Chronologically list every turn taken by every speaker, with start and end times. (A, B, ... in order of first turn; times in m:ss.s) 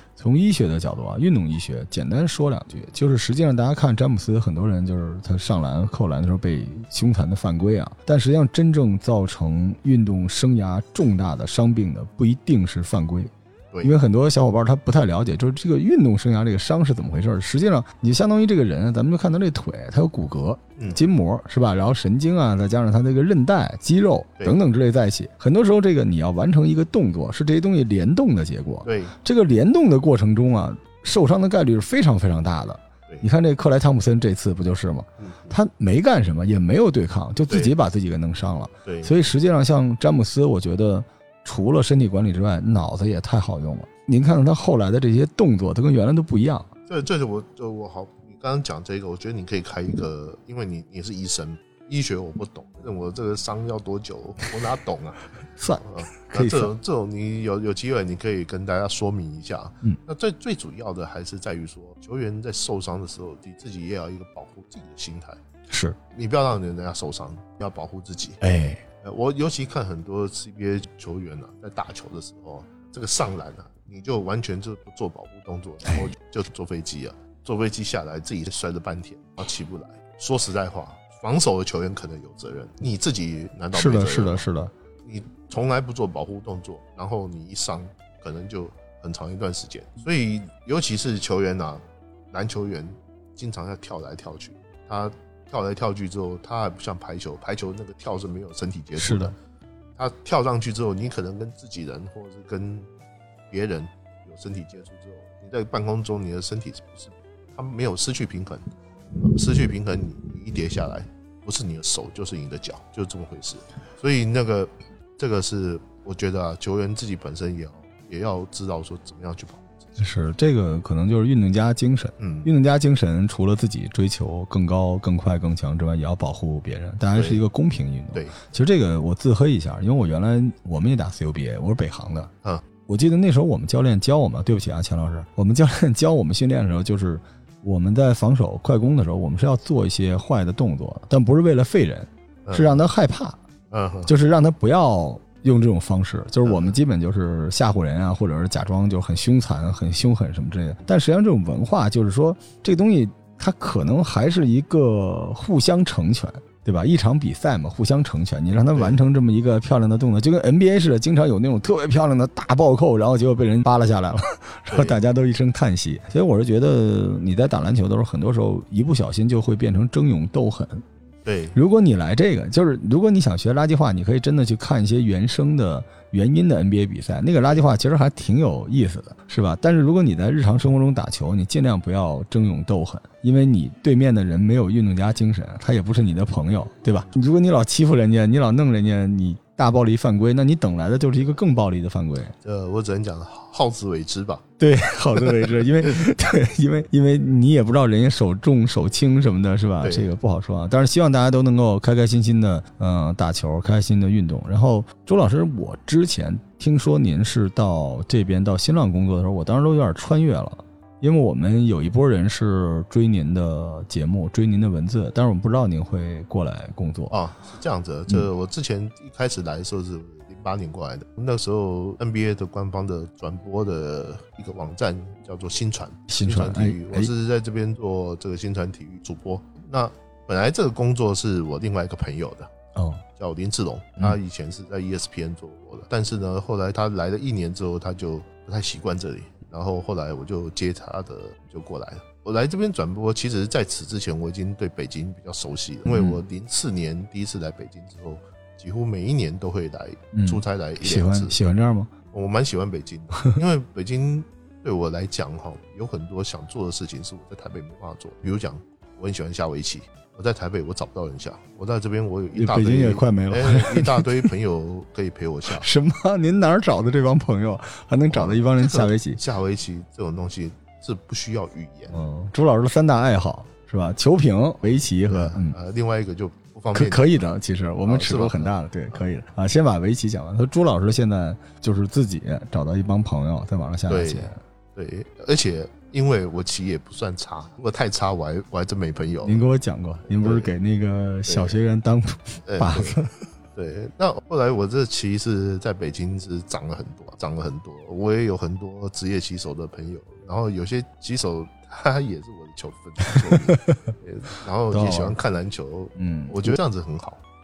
0:00.2-0:13.3 A
0:13.8-0:46.7 A
0:20.8-0:21.0 B
0:28.8-0:29.1 B
0:35.2-0:35.6 B
0:38.8-0:39.1 B
0:46.9-0:55.3 B
0:55.6-0:56.7 A
0:55.8-1:05.4 B
1:05.7-1:06.0 A
1:06.1-1:08.4 B
1:08.4-1:08.8 A
1:09.0-1:24.5 B
1:23.7-1:24.7 A
1:25.0-1:39.4 B
1:39.0-1:39.3 A
1:40.0-1:42.9 B
1:43.5-1:48.6 B
1:49.2-2:00.0 B
2:00.0-2:12.3 A
2:02.2-2:02.5 B
2:07.1-2:07.4 B
2:12.9-2:23.4 A
2:22.4-2:22.8 B
2:23.7-2:24.1 B
2:24.1-2:50.8 A
2:26.4-2:26.8 B
2:38.7-2:39.0 B
2:44.7-2:45.0 B
2:51.2-2:51.6 B
2:51.5-3:12.3 A
3:12.4-3:14.4 B
3:14.6-3:37.1 A
3:19.8-3:20.1 B
3:37.1-3:52.5 B
3:46.1-3:47.1 A
3:52.7-3:53.0 A
3:53.2-4:11.4 B
4:05.8-4:06.2 A
4:10.1-4:11.9 A
4:12.1-4:25.7 B
4:22.4-4:24.3 A
4:25.5-4:29.2 A
4:28.1-4:32.0 B
4:31.9-4:35.6 A
4:35.1-4:37.2 B
4:36.7-4:44.4 A
4:37.8-4:39.0 B
4:43.9-4:49.4 B
4:49.2-4:53.1 A
4:50.2-4:50.5 B
4:51.3-4:51.6 B
4:52.4-4:53.0 B
4:53.6-5:07.2 B
5:03.1-5:03.8 A
5:04.7-5:05.2 A
5:06.0-5:06.6 A